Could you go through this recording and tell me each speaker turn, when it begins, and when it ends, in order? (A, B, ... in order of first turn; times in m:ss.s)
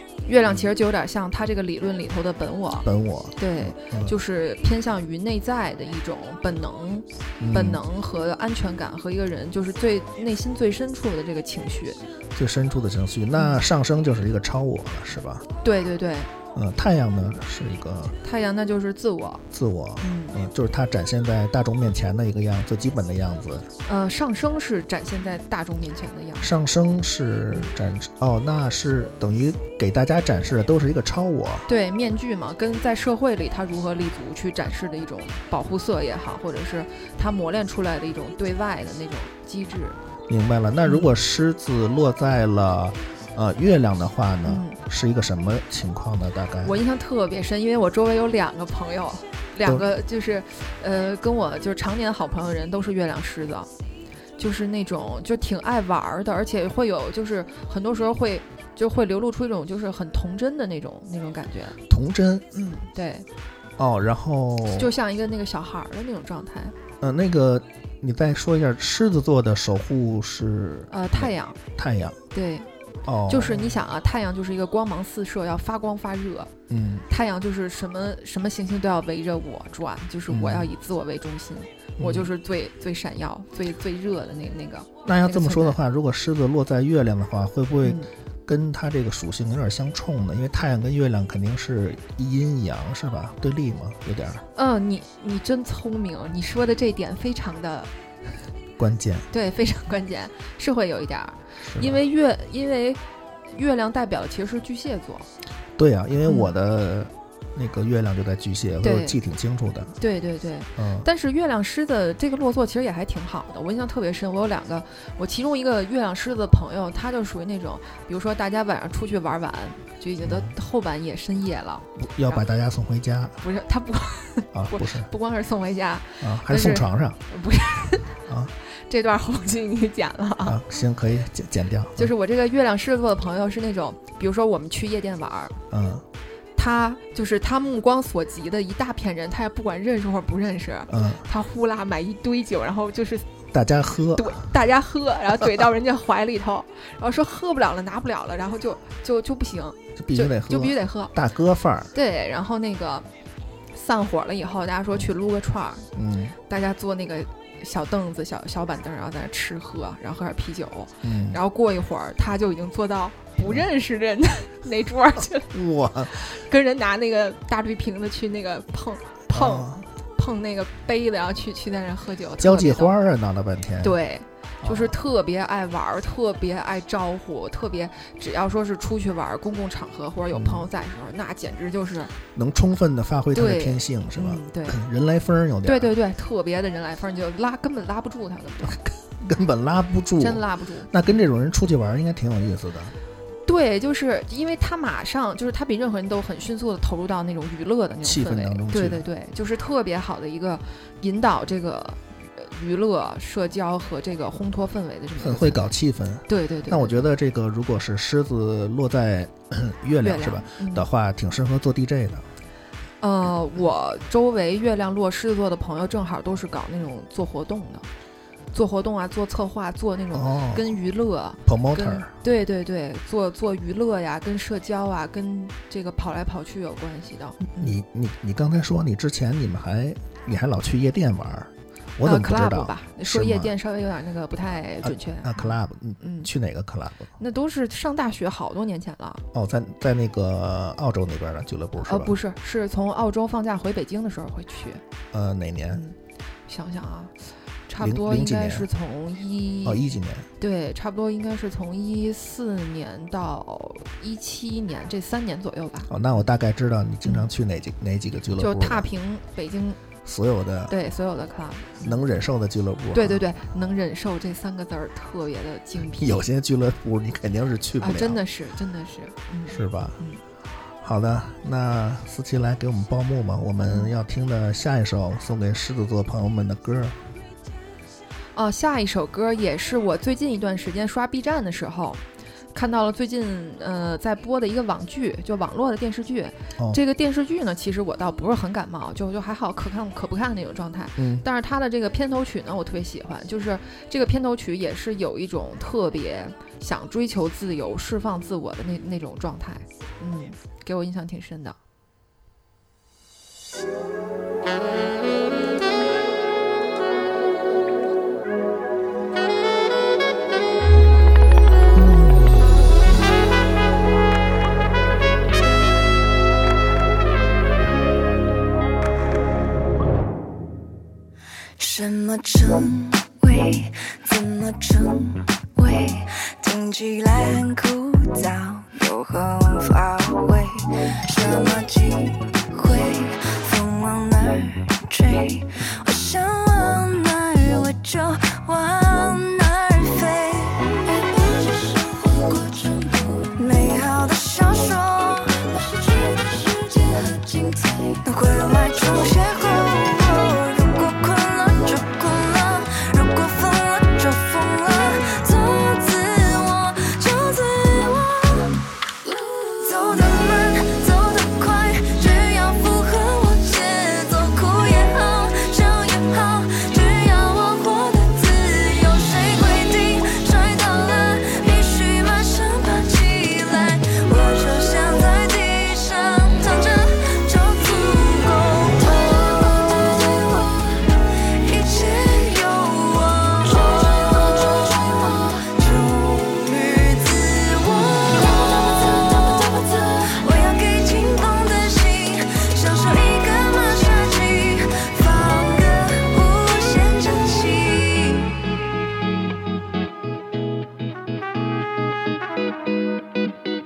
0:00.3-0:12.0 A
0:02.8-0:04.2 B
0:07.4-0:07.8 B
0:12.4-0:15.5 B
0:13.4-0:13.6 A
0:15.6-0:16.3 A
0:16.6-0:18.2 B
0:18.2-0:19.4 A
0:19.5-0:23.7 B
0:20.0-0:20.4 A
0:23.8-0:26.5 A
0:26.4-0:31.7 B
0:31.7-0:40.0 A
0:40.3-0:46.8 B
0:44.4-0:44.8 A
0:46.6-0:53.7 A
0:54.4-1:01.8 A
1:01.9-1:02.5 B
1:02.5-1:03.3 A
1:03.8-1:04.9 B
1:04.7-1:06.8 A
1:07.0-1:12.2 B
1:10.9-1:11.6 A
1:12.3-1:12.7 A
1:13.1-1:13.7 B
1:13.3-1:16.5 A
1:16.7-1:17.1 B
1:17.1-1:25.8 A
1:20.3-1:20.7 B
1:22.0-1:22.3 B
1:25.0-1:34.4 B
1:27.8-1:28.1 A
1:34.6-1:37.9 A
1:38.8-1:39.3 B
1:39.3-1:43.0 A
1:41.6-1:42.0 B
1:43.5-1:45.3 A
1:45.8-1:50.0 B
1:46.3-1:46.5 A
1:48.8-1:49.2 A
1:50.0-2:02.4 A
1:50.8-1:51.1 B
2:00.2-2:00.5 B
2:02.0-2:03.4 B
2:03.4-2:08.2 A
2:04.5-2:05.1 B
2:06.2-2:07.2 B
2:08.3-2:08.5 B
2:08.9-2:10.6 A
2:10.4-2:12.1 B
2:12.0-2:15.6 A
2:15.7-2:16.0 B
2:16.6-2:23.3 A
2:20.9-2:21.2 B
2:23.5-2:24.5 B
2:24.2-2:31.1 A
2:30.0-2:31.9 B
2:31.9-2:33.1 A
2:33.7-2:35.9 A
2:36.0-2:36.4 B
2:36.5-2:45.5 A
2:41.0-2:41.4 B
2:45.5-2:46.2 B
2:46.1-2:52.9 A
2:49.3-2:49.9 B
2:52.4-2:54.0 B
2:53.8-3:02.1 A
2:54.6-2:55.0 B
3:00.3-3:00.6 B
3:02.3-3:05.9 B
3:03.3-3:04.8 A
3:05.6-3:08.8 A
3:08.6-3:13.0 B
3:10.2-3:10.9 A
3:13.5-3:25.7 A
3:18.0-3:19.0 B
3:25.2-3:32.2 B
3:26.3-3:27.0 A
3:30.0-3:30.9 A
3:33.0-3:37.9 A
3:38.5-3:47.8 A
3:40.1-3:40.8 B
3:41.4-3:42.1 B
3:47.6-3:53.6 B
3:52.0-3:56.3 A
3:54.8-3:57.1 B
3:57.2-3:59.2 A
3:59.3-4:02.2 B
4:01.8-4:04.8 A
4:05.1-4:05.8 B
4:06.5-4:07.1 A
4:07.7-4:15.9 A
4:07.8-4:08.7 B
4:09.6-4:10.3 B
4:15.9-4:18.9 B
4:17.0-4:17.3 A
4:18.4-4:19.8 A
4:20.0-4:20.7 B
4:20.7-4:22.0 A
4:21.8-4:23.3 B
4:22.9-4:26.3 A
4:25.9-4:28.2 B
4:27.8-4:30.2 A
4:29.5-4:30.0 B
4:30.8-4:37.0 B
4:33.7-4:33.9 A
4:38.4-4:42.0 A
4:42.5-5:01.6 A
4:51.0-4:51.2 B
5:21.6-6:20.9 C
6:21.4-6:38.4 C